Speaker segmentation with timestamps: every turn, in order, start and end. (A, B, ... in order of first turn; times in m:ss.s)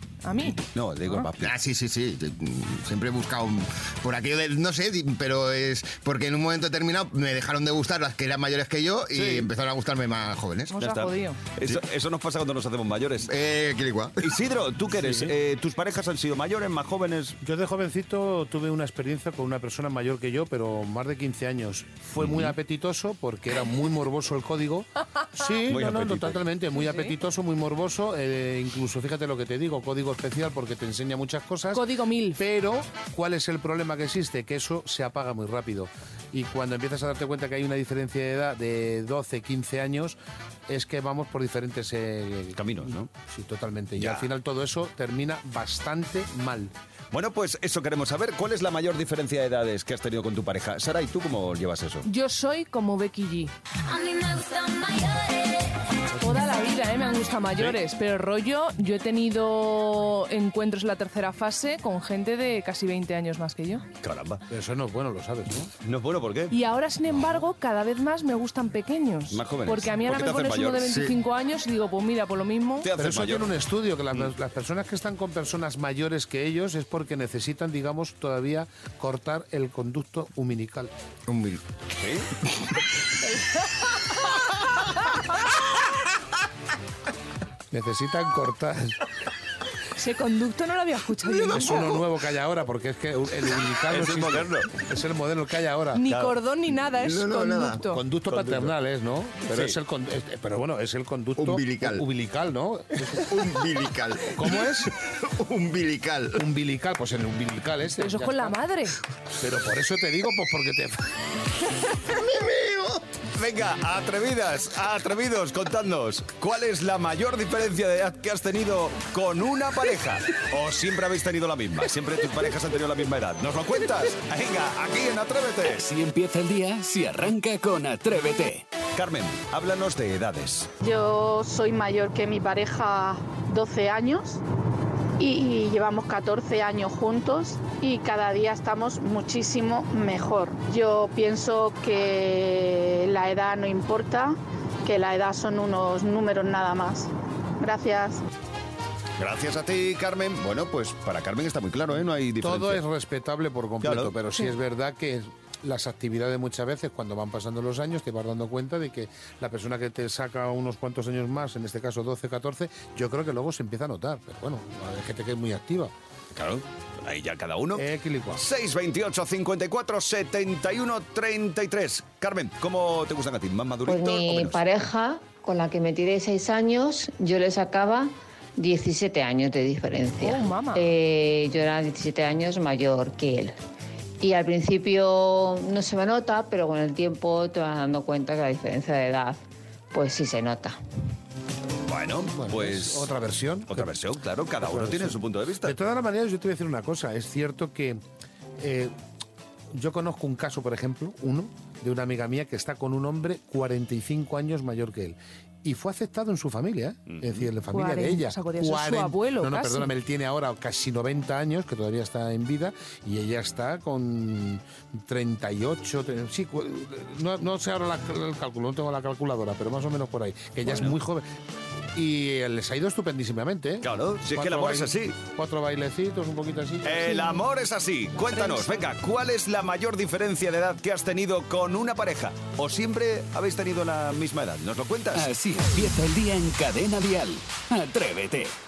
0:00.2-0:00.6 A
0:00.5-0:01.5 B
0:01.4-0:10.7 C
0:09.1-0:09.5 B
0:10.7-0:11.4 A
0:10.8-0:13.3 B
0:13.2-0:14.2 C
0:14.2-0:17.4 B
0:14.9-0:15.3 D
0:17.4-0:40.2 D
0:22.2-0:22.6 B
0:25.6-0:26.4 B
0:26.7-0:27.1 A
0:31.7-0:32.4 A
0:40.7-0:46.7 D
0:42.6-0:43.1 B
0:44.0-0:44.3 B
0:47.1-0:52.0 B
0:52.0-0:53.5 A
0:53.8-0:55.8 E
0:56.2-1:03.8 A
1:04.0-1:04.4 B
1:04.5-1:05.7 D
1:05.8-1:06.5 B
1:06.5-1:12.9 A
1:09.3-1:10.9 B
1:12.8-1:13.5 B
1:12.9-1:20.9 D
1:21.3-1:21.6 C
1:21.9-1:22.3 B
1:27.7-1:29.0 D
1:30.0-1:31.9 A
1:31.4-1:32.0 C
1:31.5-1:36.0 D
1:33.9-1:34.7 B
1:35.9-1:38.0 A
1:36.1-1:36.3 B
1:37.0-1:37.8 C
1:37.9-1:43.5 D
1:38.3-1:38.7 B
1:39.5-1:39.8 B
1:41.4-1:42.0 C
1:43.2-1:46.4 C
1:44.4-1:44.9 D
1:46.4-1:48.6 D
1:48.0-1:48.9 A
1:49.4-1:51.1 D
1:52.1-1:53.0 C
1:53.4-2:05.8 B
2:05.6-2:08.6 F
2:08.9-2:10.7 B
2:10.8-2:14.4 G
2:15.2-2:27.1 G
2:27.6-2:28.2 G
2:29.2-2:32.8 B
2:32.4-2:45.9 D
2:33.8-2:34.1 B
2:46.3-2:47.8 B
2:47.7-2:48.4 D
2:48.4-2:54.6 B
2:53.8-3:03.5 H
3:00.2-3:00.9 A
3:04.2-3:09.4 H
3:09.9-3:10.8 H
3:11.9-3:13.1 B
3:12.3-3:14.0 D
3:13.7-3:15.8 B
3:14.6-3:18.0 D
3:18.6-3:18.9 D
3:19.7-3:41.2 D
3:27.1-3:27.5 B
3:27.7-3:29.9 A
3:40.7-3:41.0 B
3:41.9-3:47.4 D
3:43.8-3:45.2 B
3:46.8-3:55.3 B
3:48.2-3:48.9 A
3:55.1-3:58.5 F